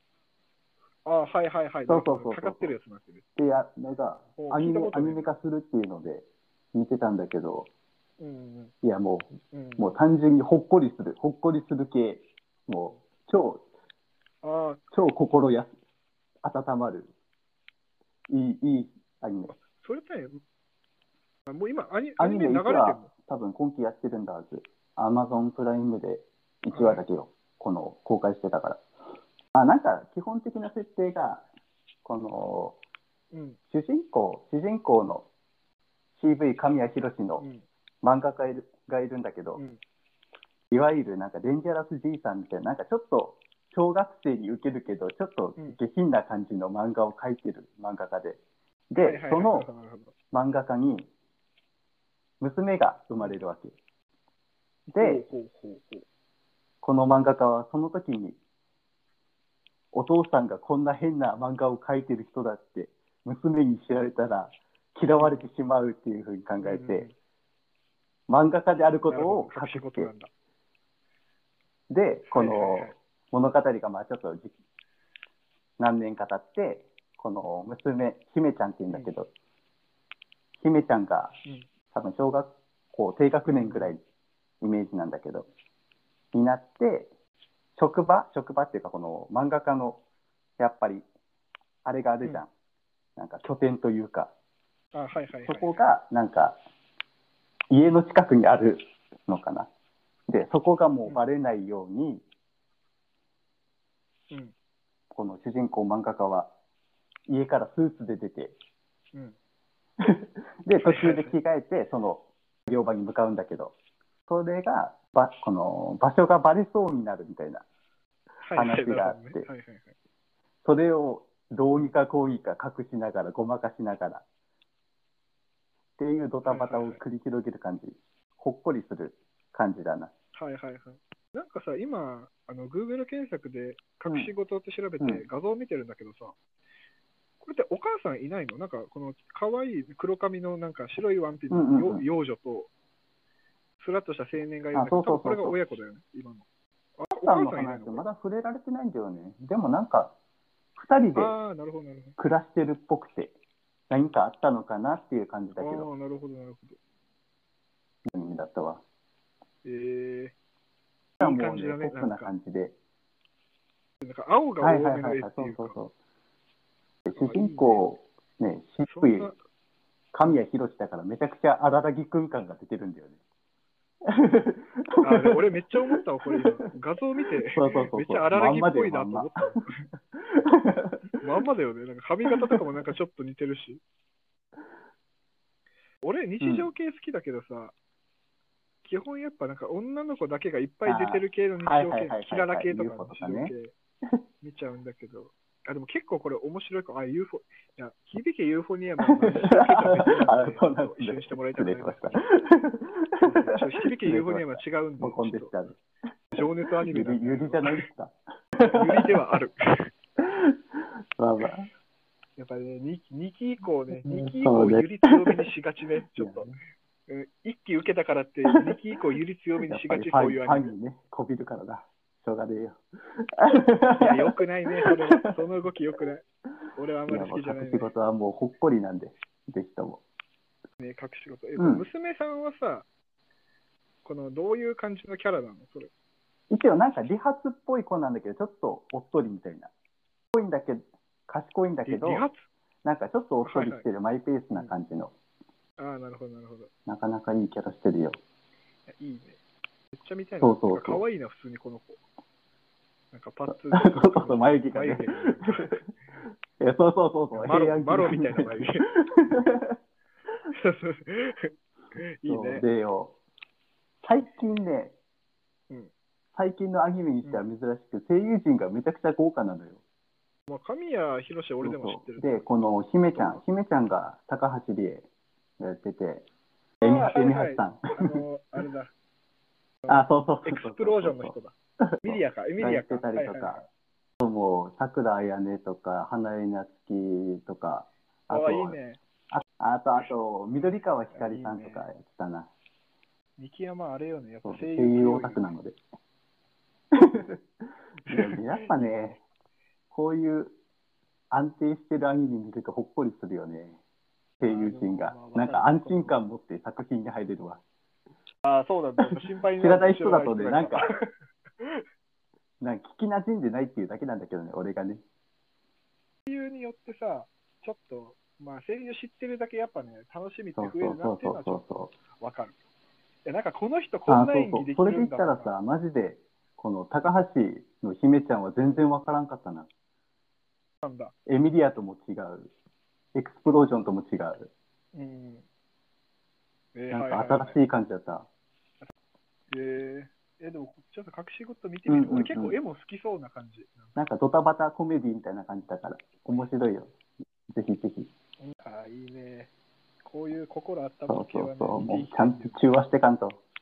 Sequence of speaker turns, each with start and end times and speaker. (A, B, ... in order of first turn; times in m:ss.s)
0:01.0-0:03.2 A
0:01.9-0:02.7 B
0:03.4-0:07.7 B
0:04.4-0:05.3 A
0:08.2-0:08.7 A
0:08.8-0:13.6 B
0:09.4-0:10.0 A
0:14.4-0:14.8 A
0:14.9-0:15.7 B
0:16.4-0:17.1 B
0:18.3-0:19.5 B
0:19.5-0:20.4 A
0:21.5-0:23.1 A
0:22.2-0:28.8 B
0:26.7-0:27.0 A
0:29.5-0:31.4 B
0:32.0-0:32.8 B
0:33.3-0:33.6 A
0:33.7-0:35.3 B
0:36.1-0:37.4 B
0:37.4-0:37.6 A
0:38.0-0:39.6 B
0:40.7-0:48.4 B
0:48.9-0:49.7 B
0:48.9-0:50.1 A
0:50.3-0:51.1 B
0:52.4-0:53.7 B
0:54.9-0:55.2 B
0:55.0-0:56.0 A
0:56.8-0:58.4 B
0:59.9-1:07.0 B
1:05.1-1:05.5 A
1:06.6-1:07.1 A
1:08.3-1:10.1 B
1:09.1-1:10.3 A
1:11.9-1:14.5 B
1:12.3-1:13.0 A
1:15.8-1:19.3 B
1:20.6-1:21.4 B
1:21.9-1:24.0 B
1:23.5-1:23.9 A
1:24.6-1:25.5 B
1:26.3-1:27.1 B
1:27.8-1:30.0 B
1:30.6-1:31.0 B
1:31.8-1:32.5 B
1:33.2-1:34.3 B
1:34.9-1:35.8 A
1:35.4-1:36.6 B
1:37.7-1:39.7 B
1:40.3-1:42.2 B
1:45.1-1:46.5 B
1:47.3-1:48.5 B
1:50.0-1:53.7 B
1:50.8-1:51.4 A
1:54.3-1:57.6 B
1:58.4-1:59.9 A
1:58.5-1:59.5 B
2:00.6-2:04.2 B
2:06.0-2:10.1 B
2:06.4-2:07.0 A
2:10.3-2:16.4 A
2:17.4-2:22.7 A
2:21.5-2:22.0 B
2:23.8-2:26.4 A
2:24.7-2:25.6 B
2:27.0-2:28.0 A
2:27.2-2:30.1 B
2:30.8-2:31.4 B
2:31.1-2:32.2 A
2:32.2-2:33.3 B
2:33.9-2:35.9 B
2:35.6-2:36.8 A
2:38.0-2:38.8 B
2:39.6-2:40.3 A
2:41.2-2:42.7 B
2:41.2-2:42.3 A
2:44.0-2:45.7 A
2:44.6-2:45.9 B
2:47.0-2:49.3 B
2:47.2-2:47.8 A
2:48.9-2:49.4 A
2:50.1-2:53.2 B
2:54.0-2:55.4 B
2:55.0-2:59.8 A
2:56.2-2:56.6 B
2:57.5-2:59.6 B
3:00.2-3:01.1 B
3:01.2-3:03.8 A
3:06.0-3:07.7 A
3:06.4-3:06.7 B
3:08.8-3:13.7 A
3:10.8-3:13.5 B
3:14.4-3:22.2 A
3:19.1-3:25.8 B
3:23.2-3:25.5 A
3:26.3-3:29.1 B
3:26.3-3:27.8 A
3:28.7-3:29.9 A
3:30.2-3:31.7 B
3:32.4-3:36.5 A
3:34.0-3:35.4 B
3:36.2-3:36.5 B
3:37.1-3:40.7 A
3:39.7-3:42.8 B
3:43.4-3:44.3 B
3:44.0-3:46.2 A
3:44.8-3:45.4 B
3:46.7-3:47.9 A
3:47.1-3:50.0 B
3:50.8-3:52.8 A
3:51.6-3:51.8 B
3:54.0-3:55.9 A
3:56.5-3:59.7 B
4:00.3-4:02.2 B
4:01.8-4:02.4 A
4:02.8-4:05.1 B
4:03.4-4:03.8 A
4:05.8-4:06.7 A
4:06.9-4:08.2 B
4:08.9-4:09.4 A
4:09.9-4:12.0 A
4:10.4-4:11.0 B
4:13.1-4:15.8 A
4:13.5-4:15.8 B
4:16.6-4:19.7 B
4:17.3-4:18.9 A
4:20.5-4:22.6 A
4:22.3-4:23.1 B
4:24.0-4:24.9 B
4:26.3-4:29.8 B
4:30.5-4:32.4 A
4:31.6-4:35.0 B
4:33.1-4:33.4 A
4:35.6-4:36.2 B
4:36.8-4:38.9 A
4:36.8-4:38.2 B
4:39.8-4:43.6 A
4:39.9-4:41.3 B
4:41.8-4:43.6 B
4:44.2-4:48.7 B
4:48.3-4:49.0 A
4:49.3-4:52.5 B
4:51.1-4:51.9 A
4:53.4-4:55.5 A
4:54.4-4:55.8 B
4:56.9-4:57.4 B
4:58.0-4:58.8 A
4:58.1-4:59.2 B
4:59.9-5:00.5 B
5:01.3-5:03.8 B
5:04.4-5:07.6 B
5:04.5-5:06.3 A
5:08.4-5:11.1 A
5:09.6-5:10.9 B
5:12.6-5:15.0 B
5:16.3-5:21.6 A
5:20.6-5:21.9 B
5:22.2-5:22.5 A
5:23.2-5:25.5 A
5:24.1-5:29.7 B
5:30.8-5:31.1 A
5:31.2-5:32.5 B
5:33.1-5:34.5 B
5:34.9-5:35.4 A
5:36.7-5:37.6 A
5:36.9-5:38.2 B
5:39.5-5:43.9 A
5:41.9-5:42.6 B
5:44.0-5:46.9 B
5:47.5-5:48.1 B
5:48.4-5:49.5 A
5:50.0-5:52.6 A
5:51.1-5:53.4 B